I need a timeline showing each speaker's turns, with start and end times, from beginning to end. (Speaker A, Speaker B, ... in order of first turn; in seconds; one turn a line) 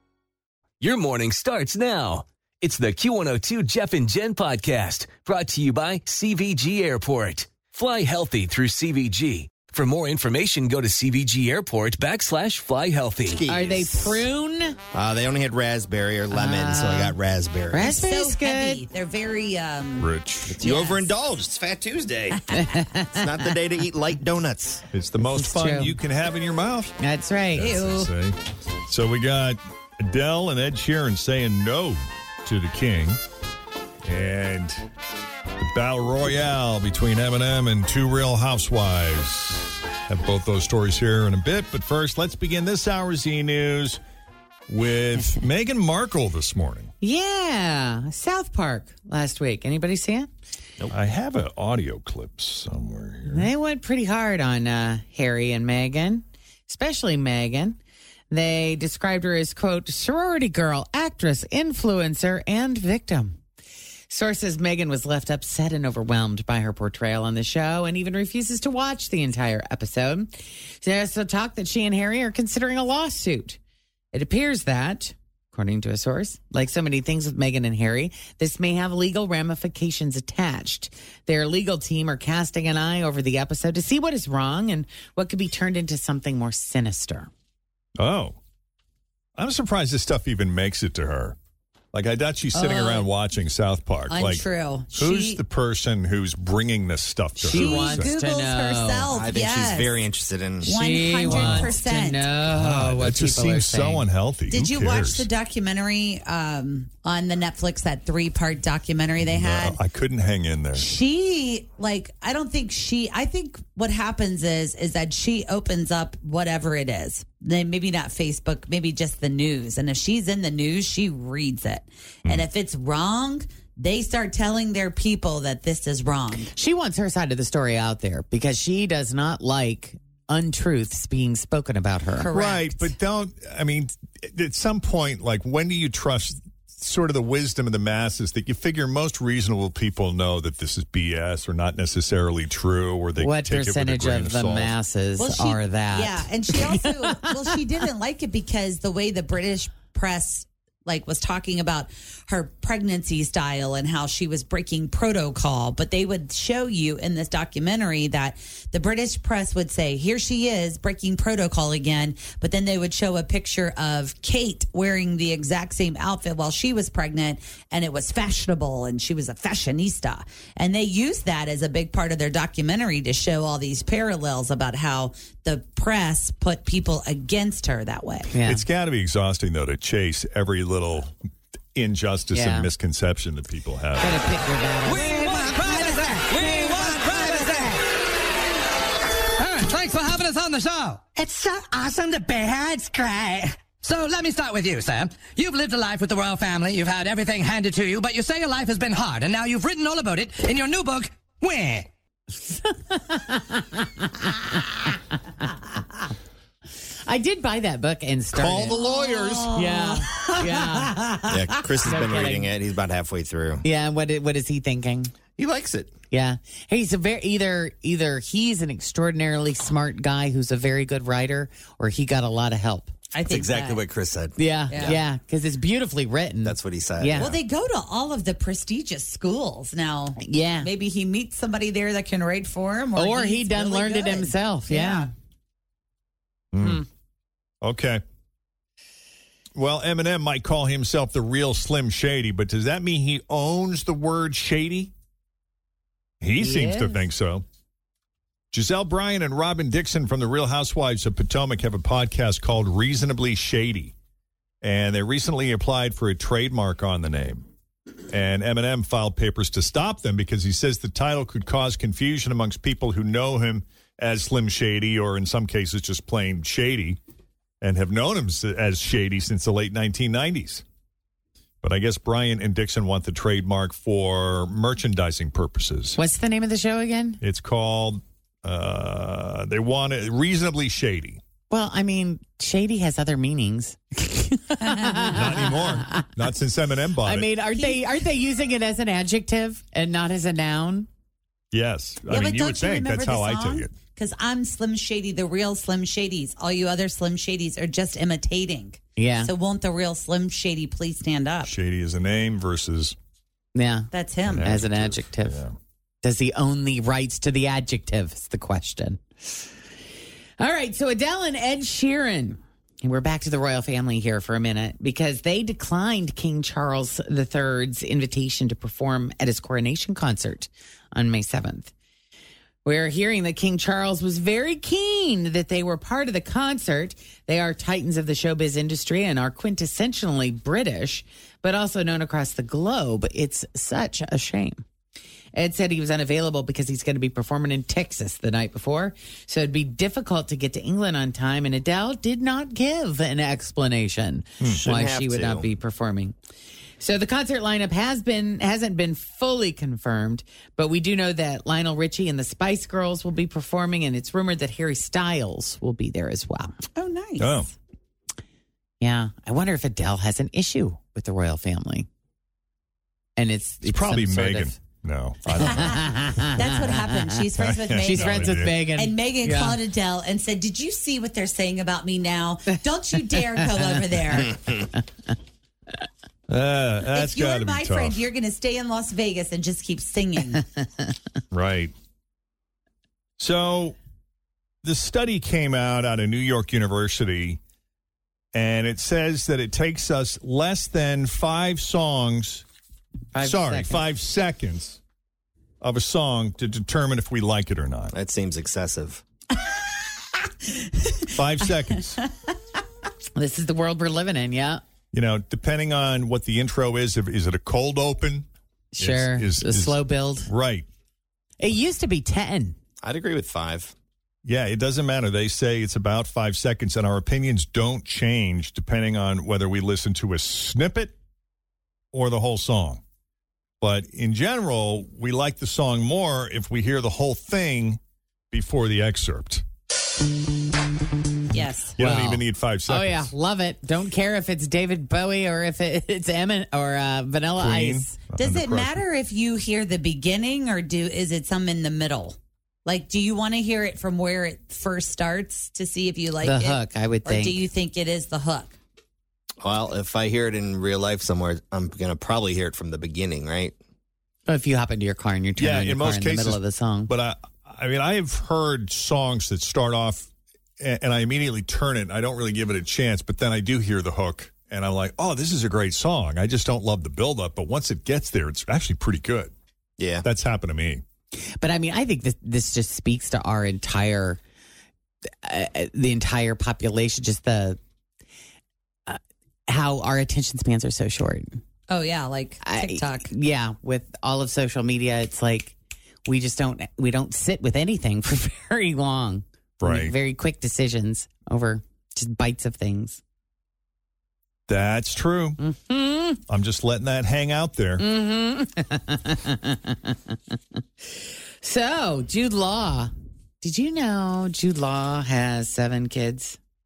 Speaker A: 0.8-13.4
Speaker B: 13.3-14.2
Speaker C: 13.5-14.8
Speaker B: 14.9-17.9
Speaker C: 16.3-17.2
Speaker C: 17.7-18.8
Speaker D: 17.8-20.1
Speaker E: 20.0-20.6
Speaker B: 20.5-22.6
Speaker D: 20.6-21.1
Speaker C: 22.5-23.4
Speaker B: 23.1-24.8
Speaker E: 24.9-26.9
Speaker C: 25.2-26.0
Speaker C: 27.0-27.7
Speaker E: 27.6-28.4
Speaker D: 27.6-28.1
Speaker E: 28.9-33.2
Speaker E: 34.1-34.9
Speaker E: 35.6-44.0
Speaker E: 44.7-46.9
Speaker C: 47.0-50.3
Speaker E: 50.9-53.5
Speaker C: 53.3-57.8
Speaker C: 58.3-63.4
Speaker C: 64.1-73.6
Speaker C: 74.1-87.3
Speaker E: 88.0-88.4
Speaker E: 89.4-91.3
Speaker E: 91.9-98.1
Speaker D: 92.5-93.1
Speaker D: 94.1-95.4
Speaker C: 97.4-99.2
Speaker D: 97.4-100.0
Speaker B: 99.1-100.7
Speaker C: 100.6-104.1
Speaker D: 100.7-102.2
Speaker E: 101.3-101.7
Speaker E: 102.5-105.3
Speaker D: 104.5-109.8
Speaker E: 109.2-110.9
Speaker D: 110.7-126.5
Speaker C: 126.5-132.3
Speaker D: 132.2-132.9
Speaker E: 132.3-144.8
Speaker C: 143.2-146.7
Speaker D: 145.2-178.3
Speaker C: 178.3-178.6
Speaker E: 178.5-181.1
Speaker E: 181.8-184.2
Speaker C: 182.3-182.7
Speaker C: 184.0-185.4
Speaker F: 184.8-187.8
Speaker C: 186.8-187.4
Speaker F: 189.4-201.9
Speaker C: 202.7-204.9
Speaker C: 207.1-208.8
Speaker E: 208.3-209.5
Speaker D: 208.7-210.7
Speaker C: 209.5-212.5
Speaker B: 211.3-213.6
Speaker C: 213.6-215.1
Speaker B: 215.4-215.9
Speaker C: 216.1-222.9
Speaker D: 223.1-223.8
Speaker B: 223.3-225.0
Speaker C: 224.4-227.3
Speaker D: 224.7-225.0
Speaker B: 226.4-227.4
Speaker D: 227.2-235.1
Speaker C: 230.2-230.7
Speaker C: 232.9-235.1
Speaker E: 236.5-236.8
Speaker E: 237.6-238.0
Speaker E: 239.6-244.9
Speaker E: 246.2-247.4
Speaker C: 246.4-247.1
Speaker E: 248.5-253.9
Speaker E: 254.6-257.4
Speaker E: 258.1-267.0
Speaker E: 267.6-270.6
Speaker E: 271.6-276.0
Speaker C: 276.0-277.2
Speaker E: 277.2-281.2
Speaker C: 281.5-285.9
Speaker D: 284.6-285.4
Speaker E: 285.1-287.3
Speaker C: 287.0-290.9
Speaker D: 287.5-287.8
Speaker E: 291.5-293.8
Speaker D: 292.1-301.5
Speaker C: 299.0-299.3
Speaker E: 301.4-302.9
Speaker C: 303.6-305.4
Speaker D: 303.9-304.5
Speaker E: 304.2-305.5
Speaker C: 306.0-309.0
Speaker C: 310.4-321.7
Speaker C: 322.6-334.6
Speaker C: 335.3-346.1
Speaker B: 344.5-345.5
Speaker C: 346.8-356.6
Speaker D: 356.8-357.5
Speaker E: 357.2-357.5
Speaker C: 358.8-361.9
Speaker C: 363.2-364.5
Speaker E: 363.6-366.2
Speaker C: 365.4-366.7
Speaker D: 365.4-365.8
Speaker D: 366.3-374.3
Speaker E: 367.4-368.7
Speaker C: 367.8-369.6
Speaker C: 373.1-373.8
Speaker E: 376.3-378.0
Speaker D: 376.9-380.4
Speaker E: 381.3-381.7
Speaker E: 383.2-383.8
Speaker E: 384.6-387.4
Speaker E: 388.3-392.4
Speaker C: 393.1-393.8
Speaker E: 393.2-394.8
Speaker E: 395.6-397.9
Speaker B: 397.9-399.0
Speaker D: 400.5-401.0
Speaker E: 401.1-402.0
Speaker C: 403.1-404.6
Speaker E: 404.9-408.3
Speaker C: 408.7-410.3
Speaker E: 408.8-410.7
Speaker C: 411.4-412.6
Speaker B: 412.8-413.7
Speaker E: 414.2-420.9
Speaker E: 421.9-422.8
Speaker E: 423.6-427.8
Speaker E: 428.3-429.4
Speaker D: 431.3-431.8
Speaker E: 431.8-433.1
Speaker C: 431.8-437.9
Speaker E: 437.4-438.8
Speaker D: 438.1-448.6
Speaker C: 446.2-447.4
Speaker B: 449.4-453.6
Speaker C: 454.3-456.9
Speaker E: 455.4-469.3
Speaker B: 469.8-470.1
Speaker E: 470.0-470.8
Speaker C: 471.4-474.2
Speaker C: 475.2-477.6
Speaker C: 478.9-481.4
Speaker D: 481.7-483.1
Speaker C: 482.4-485.6
Speaker C: 486.1-493.0
Speaker E: 489.6-489.9
Speaker E: 494.5-495.4
Speaker C: 495.4-496.2
Speaker E: 496.3-497.8
Speaker C: 497.8-500.1
Speaker C: 501.4-506.4